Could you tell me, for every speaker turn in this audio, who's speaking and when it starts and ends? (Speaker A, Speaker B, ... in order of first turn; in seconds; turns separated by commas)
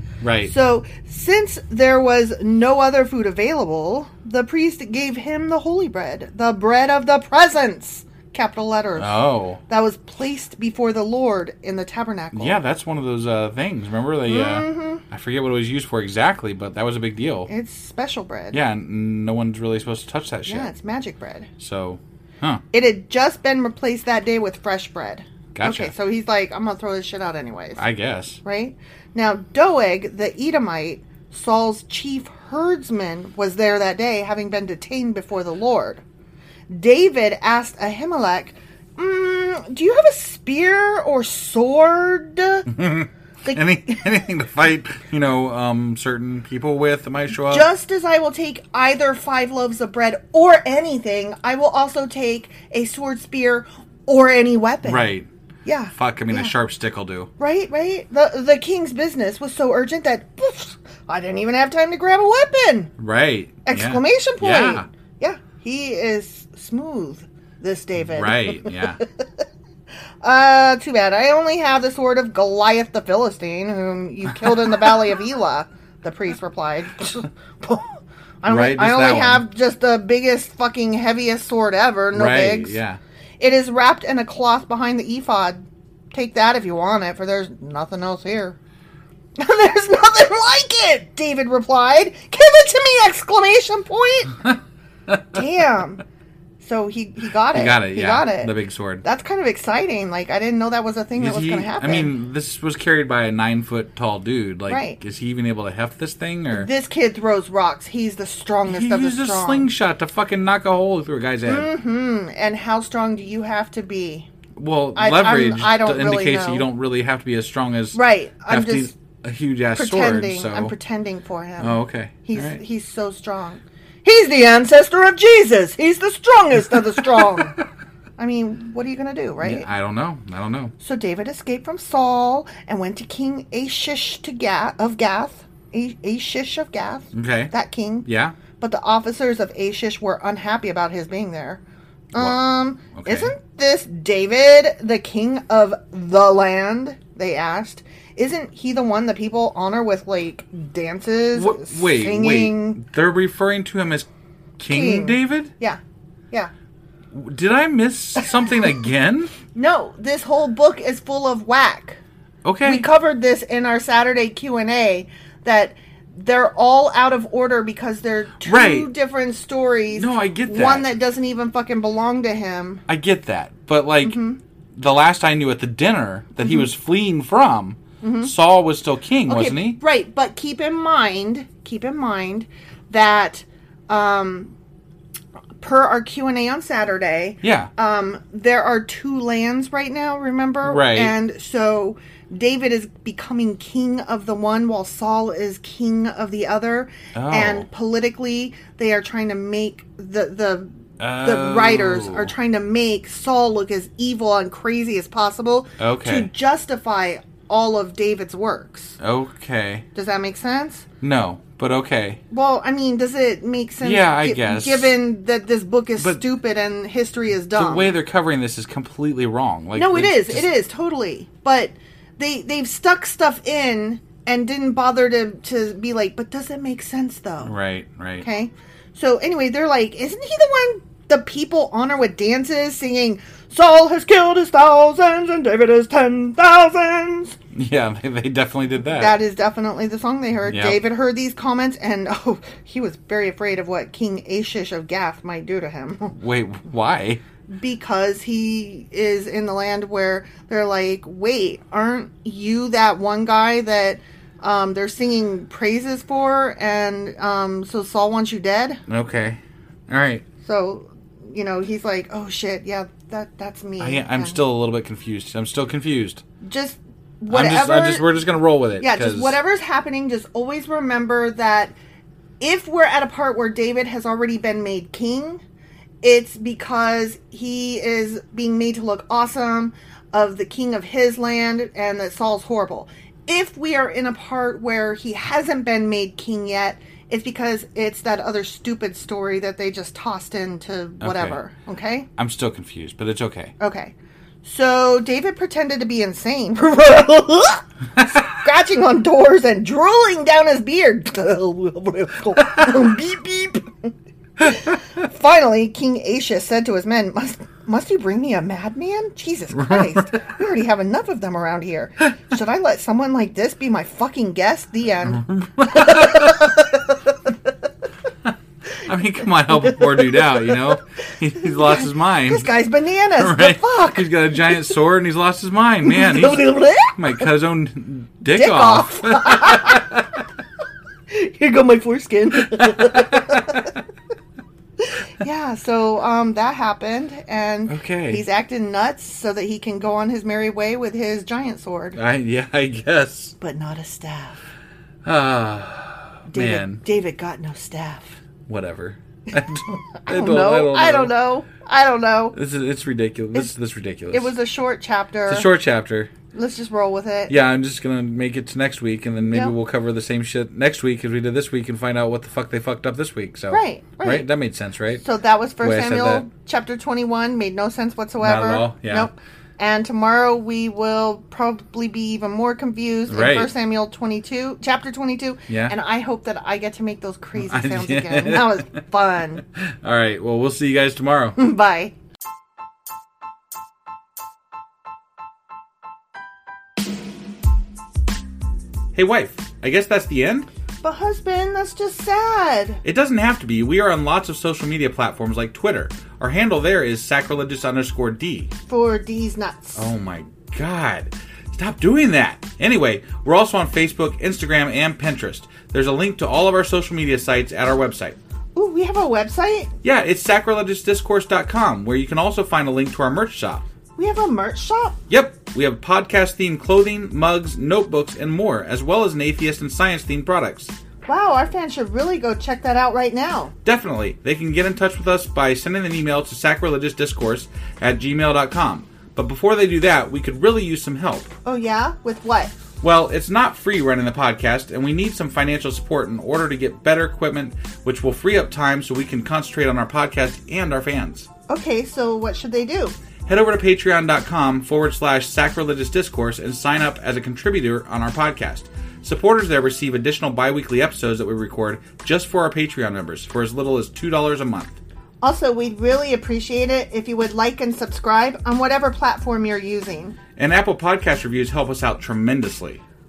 Speaker A: 0.2-0.5, Speaker B: 0.5-12.6, Speaker A: 9.0-9.6, Speaker A: 12.3-17.5, Speaker B: 14.3-15.0, Speaker B: 17.5-18.6, Speaker A: 18.5-20.7, Speaker B: 20.5-21.5, Speaker A: 21.6-22.6, Speaker B: 22.7-27.8, Speaker A: 25.6-25.9, Speaker A: 27.8-28.4, Speaker B: 28.4-36.0, Speaker B: 36.7-42.6, Speaker A: 42.7-47.7, Speaker B: 47.3-55.1, Speaker A: 54.8-55.3, Speaker B: 55.6-56.5, Speaker A: 55.9-57.3, Speaker B: 57.4-62.9, Speaker A: 63.0-64.9, Speaker B: 63.7-69.0, Speaker A: 68.0-69.0, Speaker B: 70.2-82.8, Speaker A: 74.4-75.0, Speaker A: 78.5-79.5, Speaker A: 82.1-83.0, Speaker B: 83.4-88.6, Speaker B: 89.4-94.3, Speaker B: 95.3-96.0, Speaker B: 96.6-102.1, Speaker A: 97.5-99.0, Speaker A: 101.2-106.7, Speaker B: 104.7-105.0, Speaker B: 106.5-109.7, Speaker A: 108.7-111.7, Speaker B: 111.5-114.3, Speaker A: 114.6-120.8, Speaker B: 115.0-116.7, Speaker B: 117.9-118.9, Speaker B: 119.7-127.6, Speaker A: 121.6-122.6, Speaker B: 128.2-129.7, Speaker A: 129.4-130.7, Speaker B: 130.8-138.1, Speaker A: 137.1-137.5, Speaker A: 138.1-138.4, Speaker B: 138.6-141.6, Speaker B: 142.1-152.8, Speaker A: 142.2-143.3, Speaker A: 151.3-154.1, Speaker A: 154.6-155.5, Speaker B: 154.7-155.8, Speaker A: 157.1-159.3, Speaker B: 159.5-162.0, Speaker A: 162.4-162.9, Speaker B: 162.6-172.8, Speaker A: 168.4-168.9, Speaker A: 169.9-170.9, Speaker A: 172.9-174.2, Speaker B: 174.0-174.4, Speaker A: 174.8-179.8, Speaker B: 176.4-176.7, Speaker B: 178.0-178.3, Speaker B: 179.3-184.6, Speaker B: 185.6-209.0, Speaker A: 187.4-187.7, Speaker A: 190.6-191.2, Speaker A: 197.2-197.7, Speaker A: 201.0-202.3, Speaker A: 205.8-206.3, Speaker A: 209.0-209.8, Speaker B: 209.9-210.9, Speaker A: 211.0-212.2, Speaker B: 212.3-217.9, Speaker A: 213.8-215.0, Speaker A: 217.5-220.5, Speaker B: 219.8-227.5, Speaker A: 227.4-228.2, Speaker B: 228.2-237.4, Speaker A: 237.5-239.2, Speaker B: 238.8-246.1, Speaker A: 240.4-240.8, Speaker A: 246.1-247.2, Speaker B: 247.5-258.8, Speaker A: 258.9-260.2, Speaker B: 260.4-264.4, Speaker A: 263.8-266.2, Speaker B: 266.4-268.2, Speaker A: 267.3-269.4, Speaker B: 268.8-271.8, Speaker B: 272.4-275.4, Speaker B: 276.0-292.1, Speaker A: 291.0-291.4, Speaker A: 292.2-293.5, Speaker B: 293.6-316.7, Speaker A: 309.6-310.2, Speaker A: 315.1-316.5, Speaker A: 318.9-322.5, Speaker B: 319.5-320.8, Speaker B: 321.6-324.7, Speaker A: 323.2-329.8, Speaker B: 325.8-327.3, Speaker B: 328.3-329.9, Speaker B: 331.1-333.7, Speaker A: 332.6-333.6, Speaker B: 335.2-342.0, Speaker A: 337.7-338.2, Speaker A: 342.0-343.3, Speaker B: 343.4-344.4, Speaker A: 345.1-346.8, Speaker B: 346.3-348.2, Speaker A: 348.5-351.1, Speaker B: 350.0-352.4, Speaker A: 352.3-354.3, Speaker B: 354.1-355.5, Speaker A: 355.3-356.1, Speaker B: 356.3-357.4, Speaker A: 357.3-365.0, Speaker B: 359.3-359.6, Speaker B: 363.5-364.3, Speaker B: 365.0-379.4, Speaker A: 365.6-366.3, Speaker A: 368.2-369.1, Speaker A: 373.1-373.5, Speaker A: 375.5-375.8, Speaker A: 377.4-378.8, Speaker A: 379.5-381.4, Speaker B: 381.4-381.9, Speaker A: 388.9-390.5, Speaker B: 390.8-392.8, Speaker A: 392.9-398.5, Speaker B: 398.7-399.9, Speaker A: 399.8-408.2, Speaker B: 408.6-409.7, Speaker A: 409.8-413.6, Speaker B: 414.0-415.0, Speaker A: 415.1-420.7, Speaker B: 421.1-423.5, Speaker A: 423.6-431.4, Speaker B: 431.4-432.5, Speaker A: 432.8-441.3, Speaker B: 441.5-443.0, Speaker A: 443.3-454.8, Speaker B: 455.2-460.2, Speaker A: 460.4-462.8